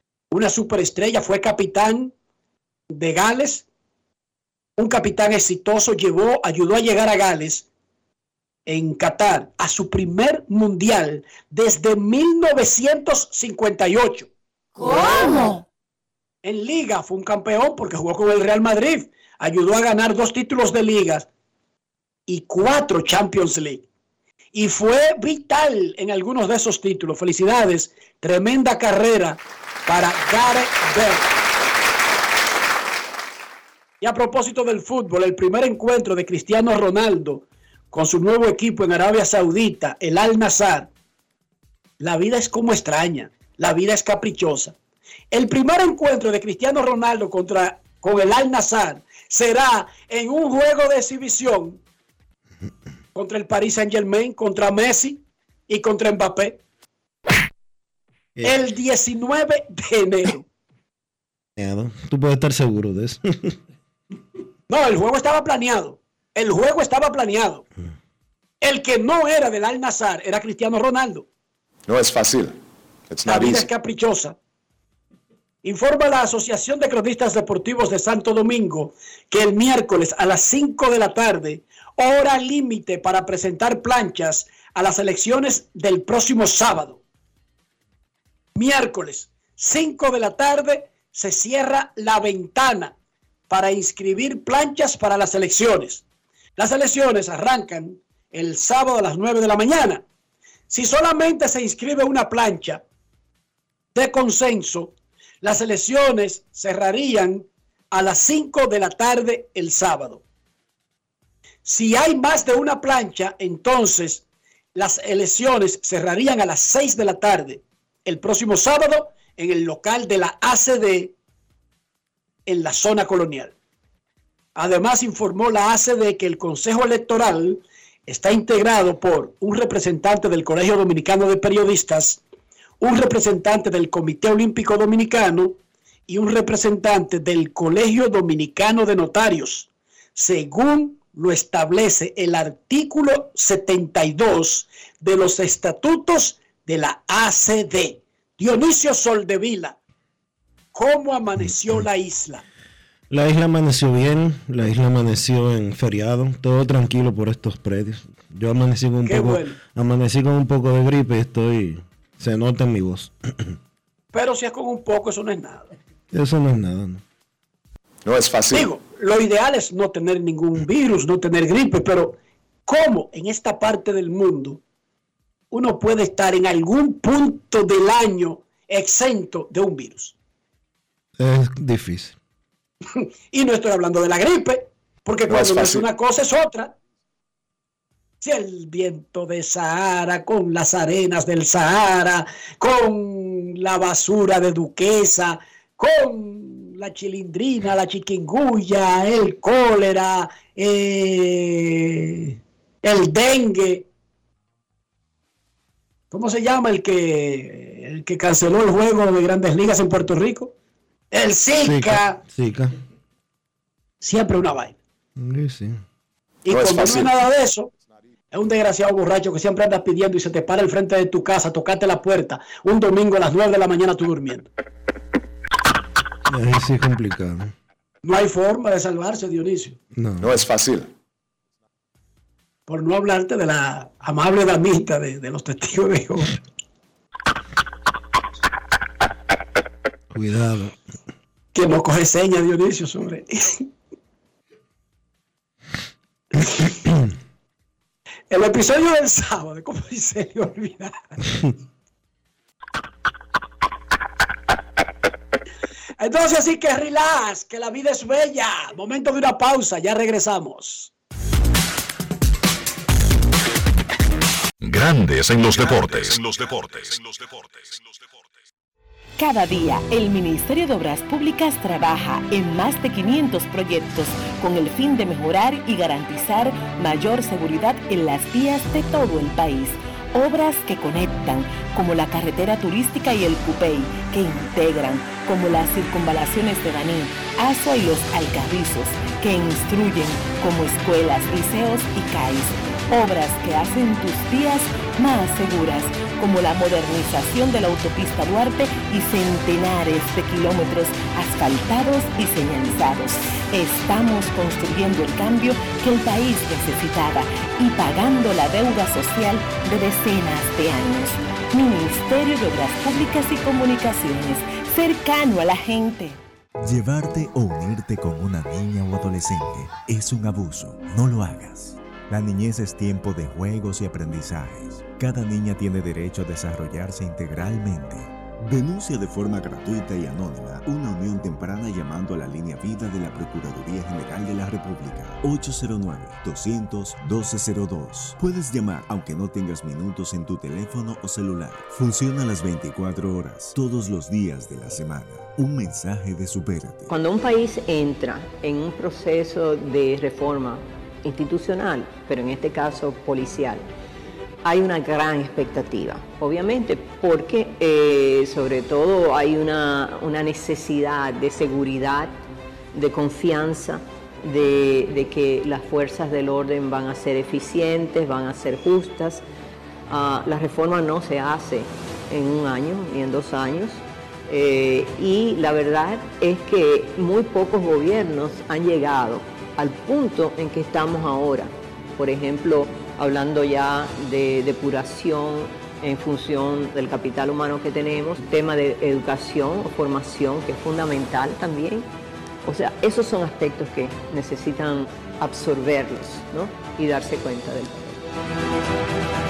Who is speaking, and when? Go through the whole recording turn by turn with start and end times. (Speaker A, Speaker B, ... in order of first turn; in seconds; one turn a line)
Speaker A: 0.3-2.1
Speaker A: 2.9-3.6
Speaker A: 4.8-7.7
Speaker A: 8.7-14.3
Speaker A: 16.4-21.3
Speaker A: 22.3-23.9
Speaker A: 24.5-31.3
Speaker A: 34.0-40.9
Speaker A: 42.0-44.8
Speaker A: 45.3-51.8
Speaker A: 53.1-56.6
Speaker A: 58.4-60.5
Speaker B: 61.6-63.5
Speaker A: 64.7-67.6
Speaker A: 68.6-71.2
Speaker C: 71.9-72.6
Speaker C: 73.1-73.7
Speaker A: 73.2-74.3
Speaker A: 75.6-87.0
Speaker A: 88.5-92.9
Speaker A: 93.5-96.0
Speaker A: 96.6-100.0
Speaker A: 100.7-102.8
Speaker A: 103.9-110.2
Speaker A: 111.6-121.1
Speaker A: 122.5-123.5
Speaker A: 124.5-132.2
Speaker A: 132.8-135.6
Speaker A: 136.1-149.8
Speaker A: 150.7-152.4
Speaker B: 153.1-163.1
Speaker A: 159.1-159.6
Speaker A: 164.1-165.7
Speaker B: 166.1-167.0
Speaker C: 168.1-168.7
Speaker A: 168.5-174.6
Speaker A: 175.5-180.1
Speaker B: 181.2-182.2
Speaker A: 183.3-186.7
Speaker C: 185.3-185.8
Speaker A: 188.2-203.9
Speaker A: 206.1-210.5
Speaker A: 211.1-212.2
Speaker B: 211.6-212.8
Speaker A: 214.0-214.8
Speaker B: 215.2-215.8
Speaker A: 216.4-217.7
Speaker C: 216.5-217.1
Speaker A: 218.3-224.5
Speaker B: 226.3-227.5
Speaker A: 228.0-229.8
Speaker B: 229.9-230.3
Speaker C: 230.2-230.9
Speaker A: 232.7-236.3
Speaker B: 240.1-240.7
Speaker A: 241.5-243.6
Speaker A: 246.4-246.7
Speaker A: 248.3-251.2
Speaker A: 256.0-260.9
Speaker D: 264.6-267.9
Speaker E: 269.2-316.2
Speaker F: 316.6-346.9
Speaker G: 346.9-353.6
Speaker G: 354.4-362.2
Speaker G: 362.7-369.2
Speaker G: 369.9-391.9
Speaker G: 392.4-398.0